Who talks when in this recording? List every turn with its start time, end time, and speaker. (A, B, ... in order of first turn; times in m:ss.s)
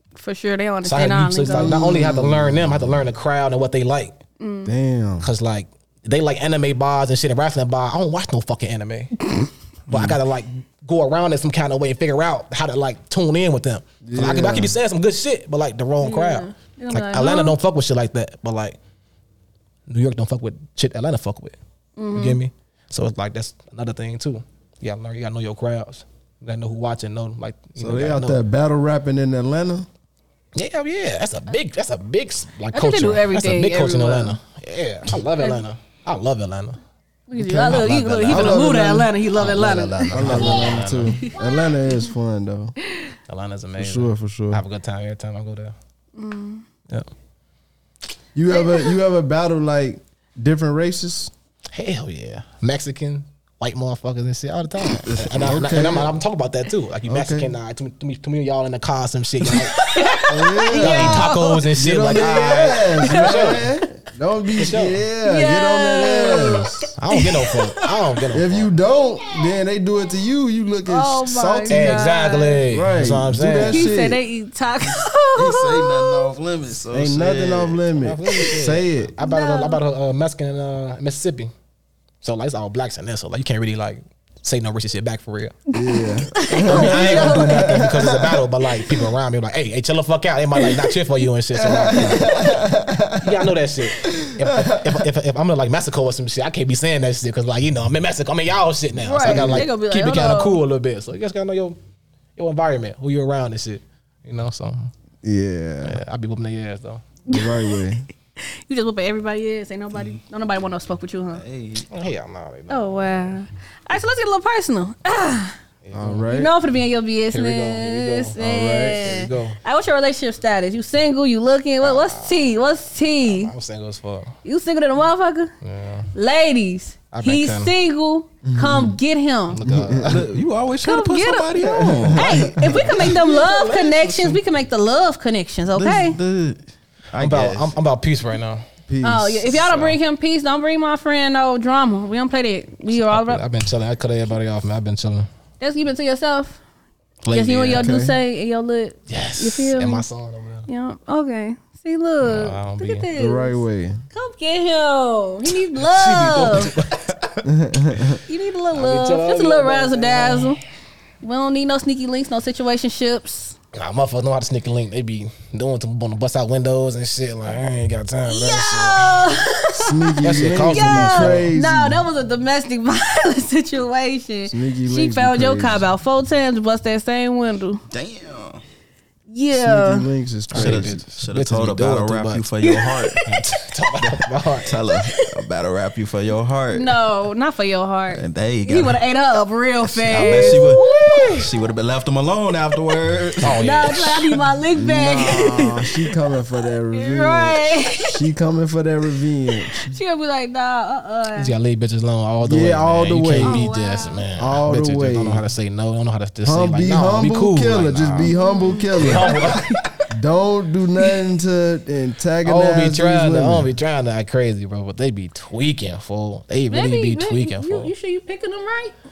0:00.2-0:02.0 A
0:00.8-0:04.2 B
0:01.5-0:03.0 C
0:04.4-0:04.7 A
0:04.6-0:05.2 C
0:05.2-0:09.2 B
0:09.9-0:18.8 B
0:09.9-0:10.2 D
0:14.0-0:14.7 C
0:16.0-0:17.5 A
0:19.9-0:21.6 B
0:22.0-0:22.4 A
0:22.1-0:28.4 B
0:27.8-0:29.9 C
0:30.6-0:36.8 B
0:32.7-0:34.4 A
0:37.3-0:42.1 A
0:37.4-0:39.1 C
0:37.6-0:38.7 B
0:39.3-0:41.2 B
0:40.1-0:42.7 C
0:43.3-0:45.7 B
0:43.8-0:44.6 C
0:46.1-0:46.6 A
0:48.3-0:51.3 C
0:48.5-0:48.9 A
0:51.7-1:03.6 B
0:55.0-0:55.6 D
0:55.3-0:56.2 C
0:57.1-0:57.5 C
0:59.5-1:01.6 A
1:00.3-1:06.9 C
1:03.0-1:03.8 A
1:04.6-1:05.0 B
1:05.2-1:07.9 A
1:07.0-1:08.7 B
1:08.3-1:12.1 C
1:10.9-1:12.6 A
1:11.7-1:13.9 B
1:12.7-1:14.2 C
1:13.6-1:16.3 A
1:14.8-1:17.8 D
1:16.9-1:19.1 C
1:18.0-1:21.5 B
1:19.2-1:19.8 A
1:22.2-1:25.6 B
1:25.7-1:28.4 C
1:25.7-1:28.0 A
1:26.5-1:32.2 B
1:31.5-1:35.0 C
1:33.2-1:41.8 B
1:39.0-1:40.6 A
1:39.2-1:39.7 C
1:42.4-1:44.9 B
1:45.2-1:46.0 C
1:45.8-1:47.0 B
1:47.2-1:51.4 A
1:47.3-1:48.0 C
1:51.3-1:51.9 D
1:51.9-1:53.4 B
1:52.7-1:55.6 A
1:55.8-1:56.3 B
1:55.9-1:56.5 C
1:56.3-2:03.5 A
1:57.3-1:58.4 B
1:58.4-1:59.1 C
1:58.9-1:59.6 B
2:01.8-2:02.5 B
2:03.3-2:04.4 B
2:04.4-2:05.5 A
2:05.6-2:06.1 B
2:06.1-2:09.6 A
2:07.1-2:07.7 B
2:08.4-2:09.0 C
2:09.5-2:10.3 B
2:09.6-2:10.4 C
2:10.0-2:12.4 D
2:10.8-2:16.2 A
2:11.6-2:12.7 C
2:12.2-2:14.4 B
2:15.7-2:16.6 D
2:17.1-2:17.7 D
2:17.2-2:18.6 B
2:18.9-2:19.6 C
2:19.0-2:23.4 A
2:19.5-2:20.0 B
2:22.9-2:25.3 B
2:25.6-2:26.6 A
2:27.2-2:27.9 B
2:27.3-2:30.0 A
2:27.7-2:28.2 C
2:29.1-2:30.7 B
2:30.7-2:33.6 A
2:32.2-2:33.0 B
2:33.1-2:34.0 C
2:34.1-2:36.7 A
2:35.8-2:37.1 B
2:37.4-2:38.2 C
2:38.3-2:40.6 A
2:38.7-2:40.6 B
2:41.2-2:43.5 A
2:43.7-2:49.3 B
2:48.2-2:57.8 A
2:49.7-2:52.0 C
2:50.2-2:51.5 B
2:54.5-2:55.8 C
2:57.9-2:58.6 D
2:59.3-3:00.1 A
2:59.5-3:01.0 C
3:00.5-3:02.4 B
3:00.5-3:03.2 D
3:02.6-3:03.2 A
3:03.2-3:04.8 B
3:04.0-3:06.9 D
3:04.9-3:05.3 A
3:06.7-3:11.5 A
3:08.1-3:09.0 D
3:09.8-3:13.6 D
3:10.1-3:10.6 B
3:13.4-3:14.4 B
3:13.6-3:16.1 A
3:14.7-3:20.0 C
3:16.9-3:18.2 A
3:19.7-3:21.5 A
3:21.3-3:28.3 B
3:22.4-3:23.6 C
3:23.4-3:24.2 A
3:24.4-3:25.4 C
3:26.4-3:29.6 C
3:28.2-3:29.9 A
3:28.9-3:29.8 B
3:30.1-3:33.7 C
3:32.4-3:37.9 B
3:36.7-3:38.9 A